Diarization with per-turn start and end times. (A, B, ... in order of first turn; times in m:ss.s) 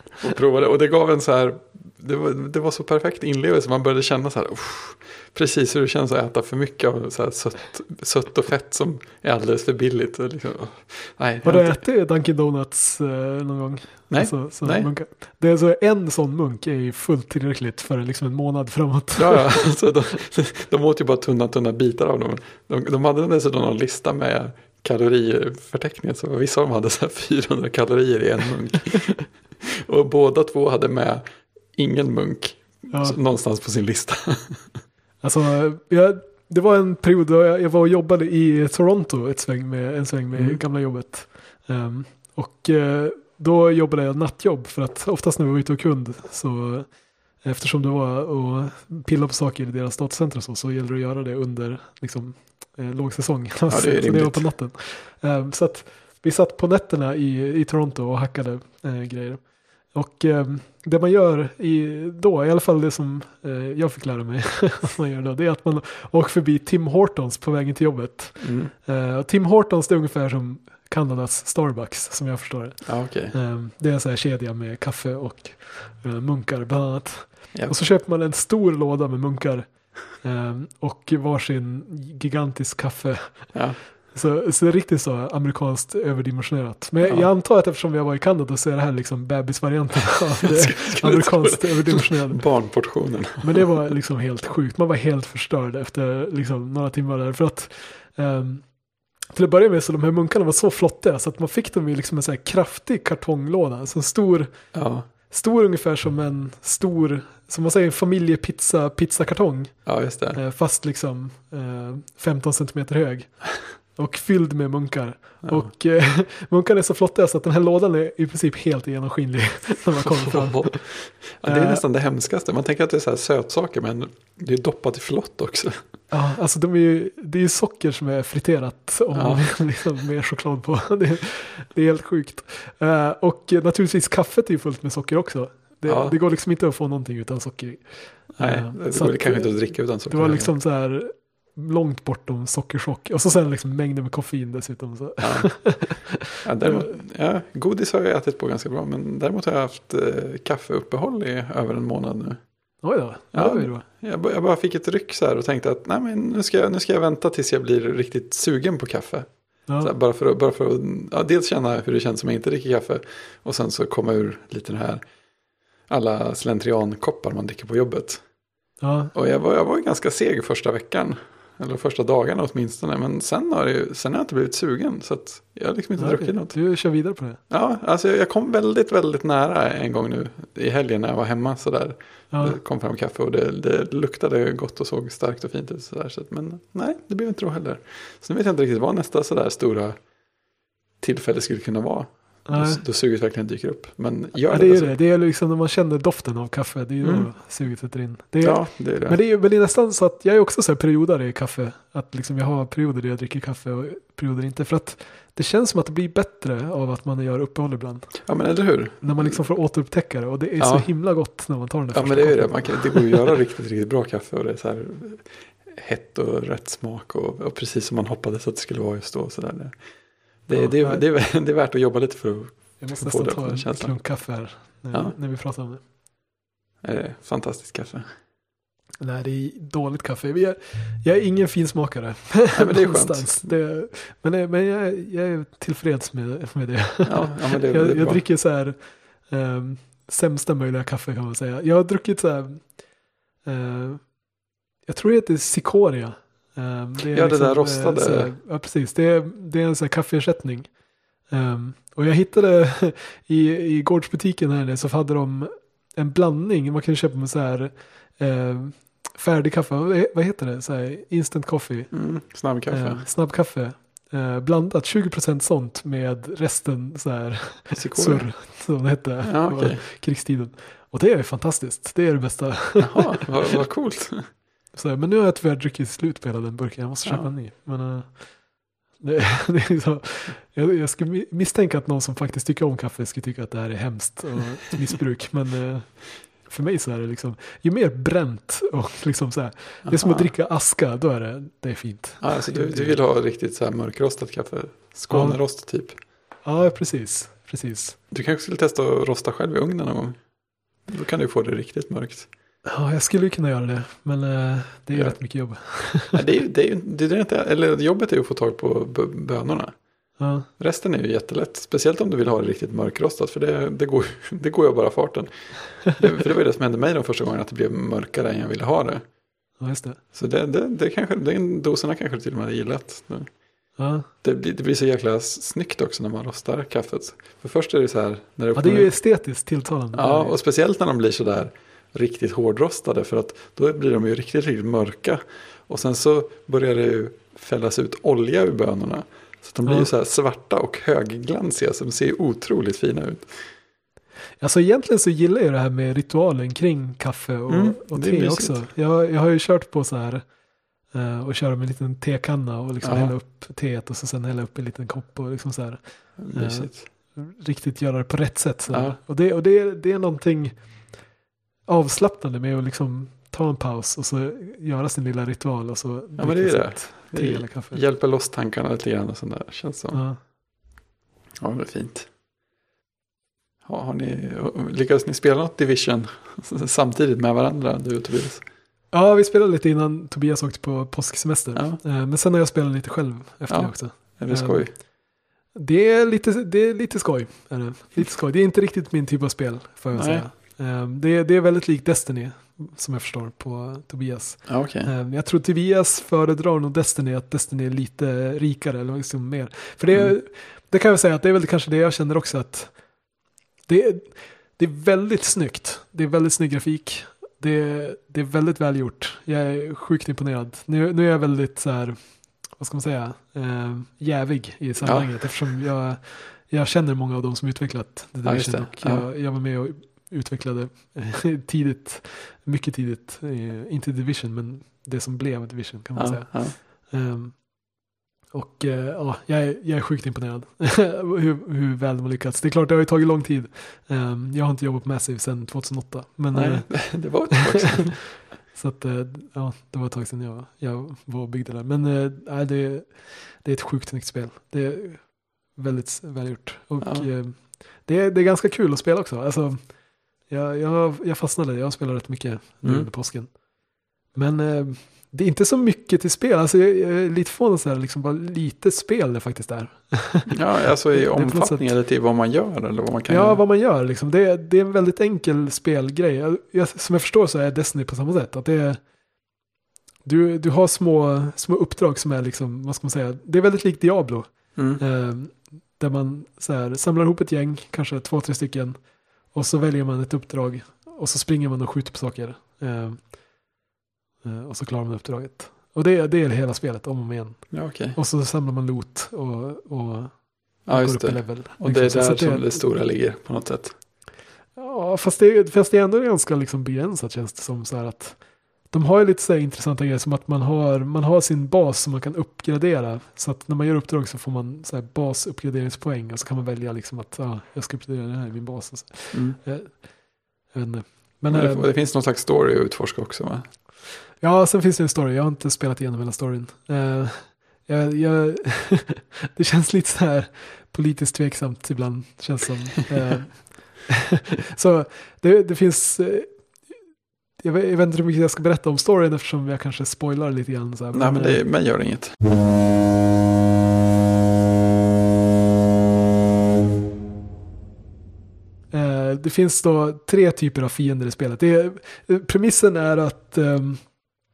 0:00.2-0:11.8 A
0:11.4-0:20.0 B
0:14.1-0:15.0 A
0:19.2-0:34.8 A
0:32.9-0:33.2 B
0:35.2-2:01.8 B
0:40.3-0:40.6 A
0:53.7-0:54.6 A
1:08.4-1:08.7 A
1:12.8-1:13.4 A
1:17.5-1:17.8 A
1:23.5-1:23.8 A
1:27.0-1:27.3 A
1:30.4-1:33.8 A
1:44.7-1:45.1 A
1:49.8-1:50.4 A
1:55.4-1:55.7 A
2:00.0-2:05.8 A
2:06.1-2:27.0 B
2:09.1-2:09.9 A
2:15.8-2:16.2 A
2:18.4-2:20.6 A
2:25.2-2:45.1 A
2:32.8-2:33.8 B
2:39.7-2:39.9 B
2:45.9-2:48.3 A
2:48.8-2:49.1 B
2:49.1-2:56.8 A
2:56.0-2:57.4 B
2:57.5-3:10.1 A
3:02.3-3:02.6 B
3:11.0-3:15.0 A
3:12.4-3:12.8 B
3:14.4-3:33.2 B
3:17.0-3:17.8 A
3:18.4-3:19.2 A
3:28.2-3:29.5 A
3:30.6-3:31.3 A
3:31.9-3:45.2 A
3:40.5-3:41.0 B
3:42.8-3:45.8 B
3:46.8-3:48.1 A
3:49.0-4:02.9 B
3:52.5-3:53.5 A
3:57.0-3:58.3 A
4:03.4-4:33.2 B
4:07.1-4:08.4 A
4:21.9-4:23.1 A
4:27.7-4:29.8 A
4:32.8-4:34.3 A
4:34.7-4:53.0 B
4:37.0-4:37.3 A
4:49.8-4:50.3 A
4:52.2-4:56.0 A
4:55.1-4:55.4 B
4:56.4-4:58.0 B
4:58.1-5:02.3 A
5:02.7-5:06.2 B
5:04.9-5:19.0 A
5:10.2-5:10.5 B
5:19.6-5:20.0 B
5:20.1-5:29.2 A
5:23.8-5:24.1 B
5:28.5-5:30.4 B
5:29.9-5:43.3 A
5:39.7-5:39.9 B
5:44.4-5:50.3 B
5:47.5-5:48.7 A
5:50.9-6:01.0 B
5:52.8-5:53.2 A
5:56.2-5:56.9 A
5:58.7-5:59.0 A
6:01.6-6:07.8 B
6:06.2-6:10.1 A
6:09.9-6:10.2 B
6:11.4-6:12.1 A
6:13.6-6:18.4 A
6:18.9-6:24.9 B
6:21.6-6:21.8 A
6:23.5-6:24.7 A
6:25.5-6:42.9 B
6:29.9-6:30.3 A
6:34.4-6:34.9 A
6:39.9-6:40.2 A
6:43.6-7:17.4 B
6:54.8-6:55.4 A
6:58.2-6:59.1 A
7:05.9-7:06.6 A
7:16.3-7:18.2 A
7:18.5-7:33.4 B
7:26.8-7:27.1 A
7:32.6-7:32.9 A
7:34.1-7:41.7 B
7:40.3-7:43.4 A
7:43.1-7:48.8 B
7:50.0-8:03.2 B
7:54.6-7:54.8 A
8:04.2-8:12.8 B
8:07.5-8:08.0 A
8:10.6-8:13.8 A
8:14.5-8:31.7 B
8:29.1-8:29.4 A
8:31.3-8:33.5 A
8:34.2-8:51.5 B
8:50.9-8:52.2 A
8:58.7-9:04.0 B